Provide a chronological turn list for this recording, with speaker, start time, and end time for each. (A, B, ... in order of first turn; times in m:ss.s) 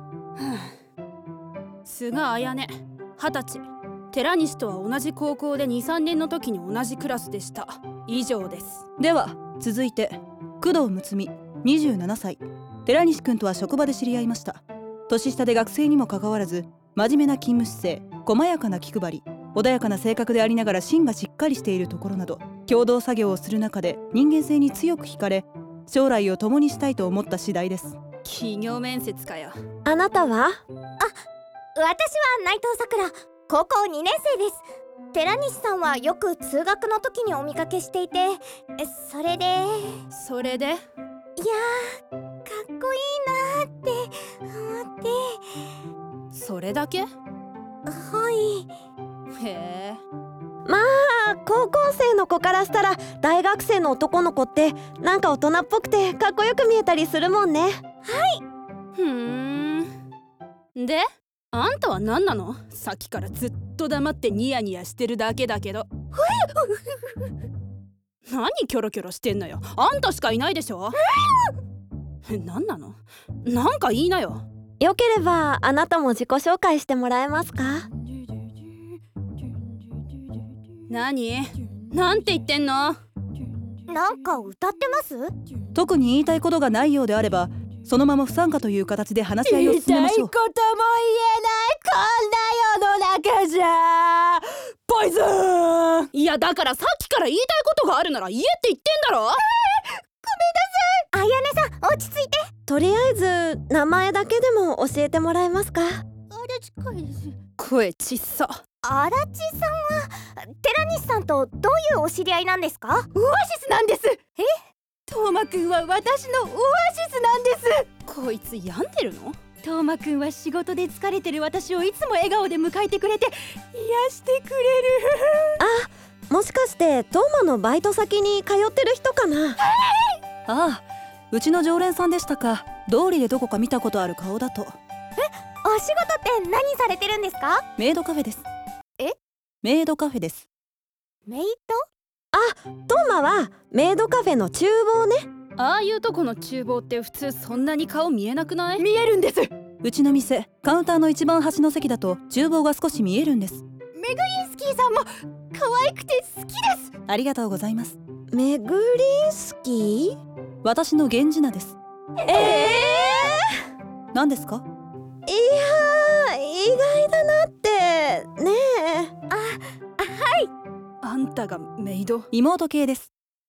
0:00.4-0:00.7 A
0:01.8-0:08.8 A
0:09.0-0:28.0 B
0:28.2-0:29.6 A
0:29.8-0:30.6 C
0:31.8-0:40.0 D
0:40.1-0:40.8 A
0:41.4-0:45.6 D
0:46.3-0:47.1 A
0:47.8-0:48.7 D
0:49.4-0:50.0 A
0:50.6-0:57.8 C
0:58.0-0:58.4 D
0:59.0-0:59.9 A
1:00.8-1:05.9 A
1:06.2-1:06.6 D
1:08.3-1:11.0 A
1:12.2-1:14.4 A
1:14.8-1:17.9 C
1:20.9-1:23.0 A
1:23.9-1:25.3 D
1:25.8-1:30.3 B
1:29.4-1:36.1 E
1:36.1-1:39.4 A
1:39.5-1:41.0 E
1:41.1-1:42.5 D
1:42.7-1:46.0 C
1:46.3-1:47.4 E
1:47.6-1:48.6 A
1:48.8-1:53.1 D
1:53.1-1:54.5 E
1:55.1-1:57.9 E
1:58.1-1:59.4 A
1:59.6-2:05.5 E
2:05.6-2:09.6 C
2:10.5-2:14.8 B
2:15.2-2:17.6 D
2:17.8-2:18.4 B
2:19.6-2:20.4 B
2:21.2-2:21.8 D
2:22.3-2:25.3 C
2:25.6-2:28.8 A
2:28.8-2:29.5 E
2:29.8-2:33.6 B
2:33.9-2:36.9 E
2:37.0-2:38.0 B
2:38.3-2:40.2 C
2:40.6-2:41.8 B
2:42.3-2:43.3 C
2:42.3-2:43.3 D
2:44.1-2:44.6 B
2:45.3-2:49.2 C
2:49.3-2:50.5 D
2:51.0-2:52.3 A
2:52.3-2:53.1 B